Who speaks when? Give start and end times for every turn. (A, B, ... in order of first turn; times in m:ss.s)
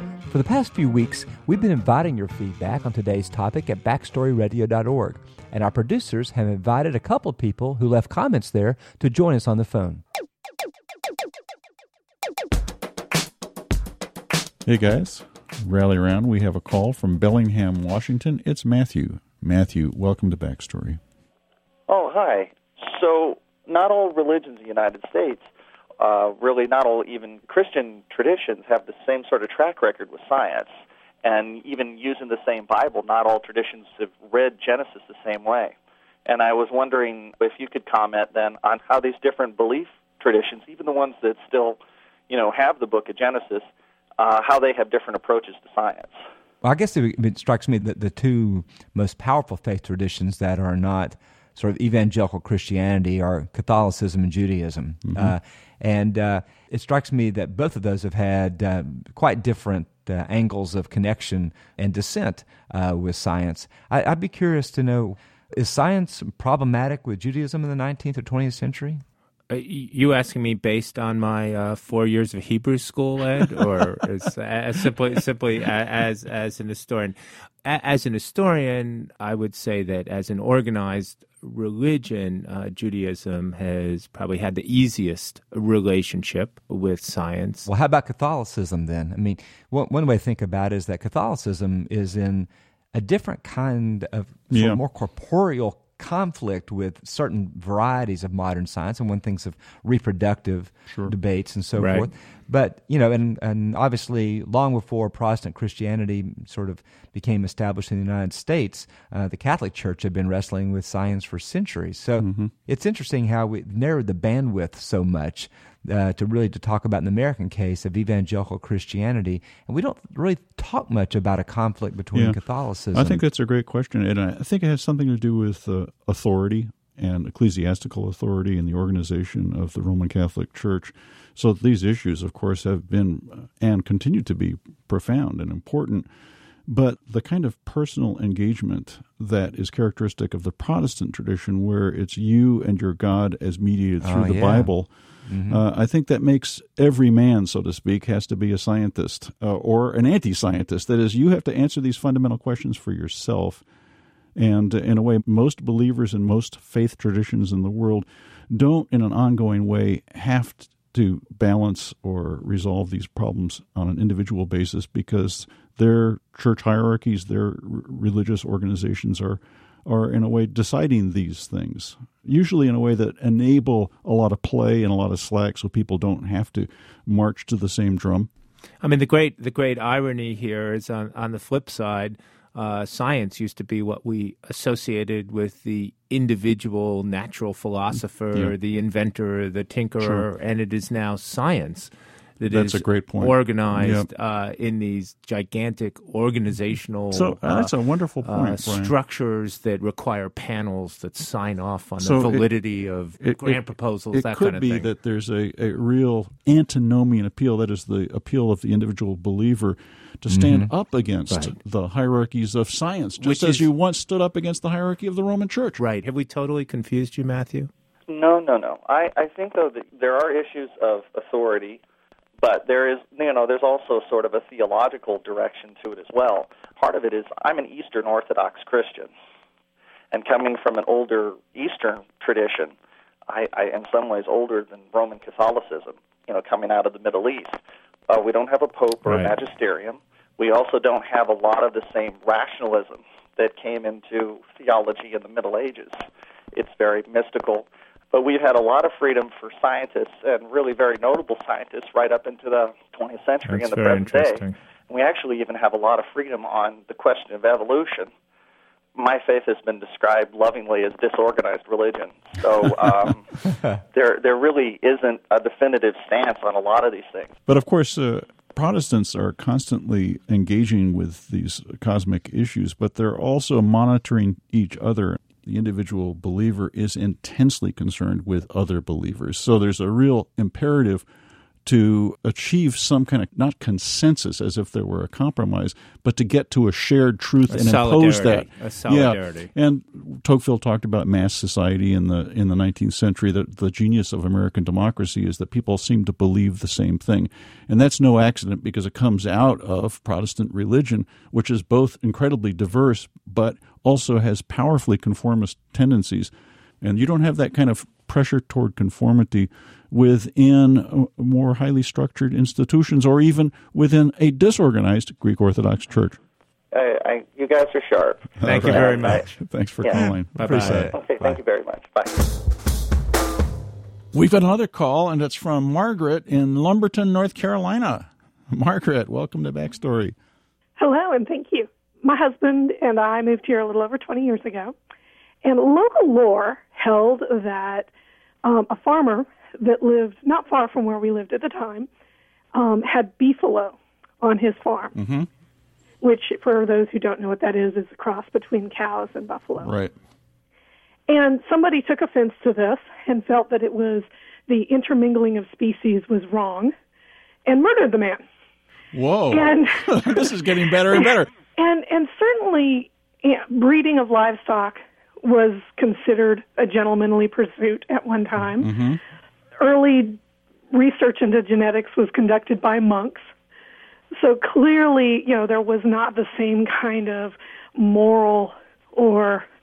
0:00.3-0:10.0 A
0:14.7-0:21.0 B
0:21.9-0:25.4 C
0:26.0-0:30.7 C
0:31.2-0:35.8 C
0:36.3-0:43.6 C
0:44.2-0:46.2 C
0:46.6-1:09.0 A
0:55.1-0:55.4 B
1:09.5-1:27.7 D
1:27.6-2:03.2 A
1:34.5-1:34.8 B
1:41.7-1:42.1 D
1:52.2-1:52.5 B
2:02.1-2:02.4 B
2:02.9-2:16.1 B
2:16.7-2:24.9 B
2:24.0-2:24.7 A
2:25.3-2:25.6 A
2:25.5-2:33.6 B
2:34.4-2:58.3 B
2:58.8-3:24.9 D
3:10.0-3:10.3 B
3:12.5-3:14.1 B
3:17.1-3:18.9 B
3:22.0-3:22.5 B
3:23.2-3:23.6 B
3:24.1-3:35.8 B
3:30.3-3:30.7 A
3:33.2-3:33.7 D
3:35.8-3:37.7 D
3:38.1-3:41.8 C
3:42.4-3:49.1 C
3:50.1-3:52.7 C
3:53.3-4:06.0 C
3:59.0-3:59.3 D
4:06.5-4:18.1 C
4:13.5-4:14.6 D
4:19.0-4:23.2 C
4:23.9-4:27.3 C
4:27.5-4:41.0 B
4:41.6-5:16.2 B
4:47.5-4:49.5 D
5:16.7-5:19.2 C
5:18.4-5:20.9 B
5:18.4-5:19.4 D
5:20.4-5:21.4 A
5:20.4-5:20.9 D
5:20.8-5:22.2 C
5:24.1-5:30.2 B
5:30.8-5:34.8 E
5:35.4-5:37.9 E
5:38.4-5:41.9 E
5:42.5-5:44.9 E
5:45.0-5:45.3 B
5:46.0-5:49.7 E
5:49.6-5:49.9 B
5:51.1-5:56.7 E
5:57.5-5:58.2 E
5:58.9-6:01.3 B
5:59.3-6:00.3 E
6:01.0-6:08.7 E
6:08.6-6:09.0 B
6:09.6-6:10.2 E
6:10.7-6:13.3 E
6:14.2-6:19.5 E